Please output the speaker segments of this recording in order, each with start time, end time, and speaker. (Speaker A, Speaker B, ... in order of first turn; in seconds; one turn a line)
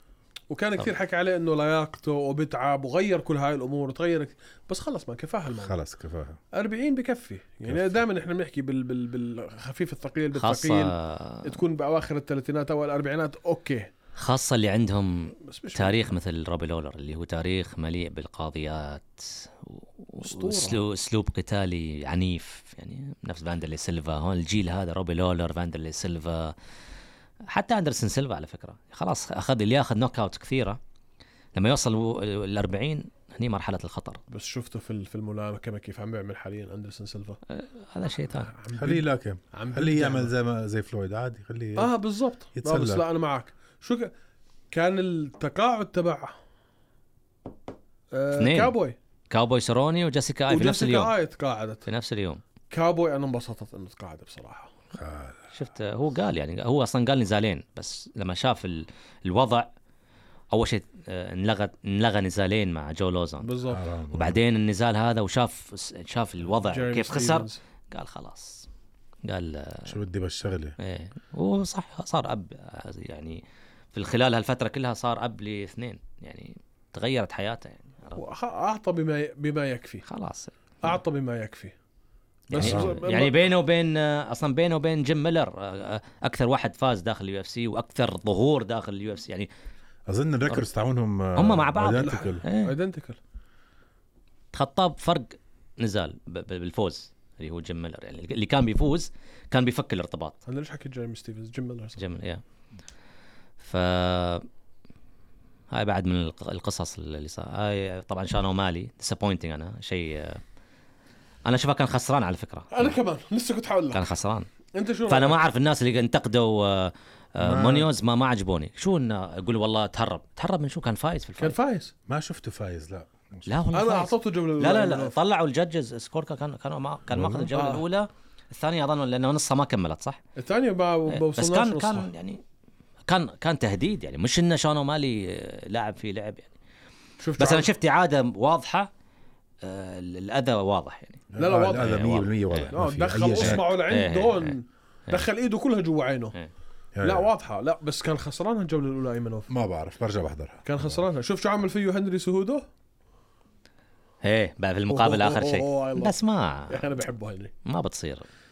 Speaker A: 0.5-5.8
Speaker B: 5.6-6.4
Speaker A: 6.5-13.9
Speaker B: 7.7-8.0
Speaker C: 10.3-11.5
Speaker C: 14.2-26.6
Speaker A: 15.5-16.1
Speaker A: 20.2-20.8
Speaker C: 27.5-30.8
Speaker C: 31.6-34.2
Speaker A: 34.3-37.4
Speaker C: 37.5-38.5
Speaker A: 38.5-40.3
Speaker B: 38.7-41.9
Speaker A: 41.8-44.1
Speaker B: 42.6-43.0
Speaker A: 44.7-46.3
Speaker A: 48.1-49.0
Speaker C: 48.4-48.8
Speaker C: 49.3-51.1
Speaker A: 50.5-51.8
Speaker C: 51.9-52.4
Speaker A: 52.7-54.7
Speaker B: 54.9-55.4
Speaker C: 55.5-59.7
Speaker C: 60.5-63.5
Speaker A: 63.4-63.8
Speaker B: 63.7-64.4
Speaker C: 64.1-68.7
Speaker A: 66.6-67.6
Speaker C: 69.2-69.9
Speaker B: 69.9-70.8
Speaker C: 70.8-78.2
Speaker A: 78.2-80.0
Speaker C: 80.1-81.0
Speaker A: 80.8-81.7
Speaker A: 82.5-83.5
Speaker C: 82.5-89.5
Speaker B: 82.6-82.9
Speaker B: 90.1-92.4
Speaker C: 91.4-92.7
Speaker A: 92.0-93.2
Speaker C: 94.5-100.4
Speaker A: 100.5-102.0
Speaker C: 102.0-102.4
Speaker C: 103.6-104.5
Speaker C: 105.7-110.4
Speaker C: 111.5-113.0
Speaker A: 112.7-114.0
Speaker C: 113.9-114.5
Speaker A: 114.7-115.4
Speaker C: 115.1-121.6
Speaker B: 117.4-117.9
Speaker A: 121.4-121.9
Speaker B: 122.1-123.5
Speaker C: 123.5-130.2
Speaker A: 123.7-125.2
Speaker B: 127.1-127.5
Speaker A: 127.5-127.8
Speaker A: 130.4-132.1
Speaker C: 131.1-132.4
Speaker C: 133.1-136.5
Speaker A: 137.2-137.7
Speaker C: 137.4-138.9
Speaker C: 139.6-142.7
Speaker B: 141.3-143.7
Speaker A: 141.4-142.0
Speaker A: 142.7-146.3
Speaker C: 143.4-144.6
Speaker B: 146.9-147.3
Speaker A: 147.0-149.5
Speaker B: 149.5-151.0
Speaker A: 150.7-152.7
Speaker C: 154.2-156.9
Speaker A: 154.9-156.2
Speaker A: 156.7-157.5
Speaker C: 157.7-158.3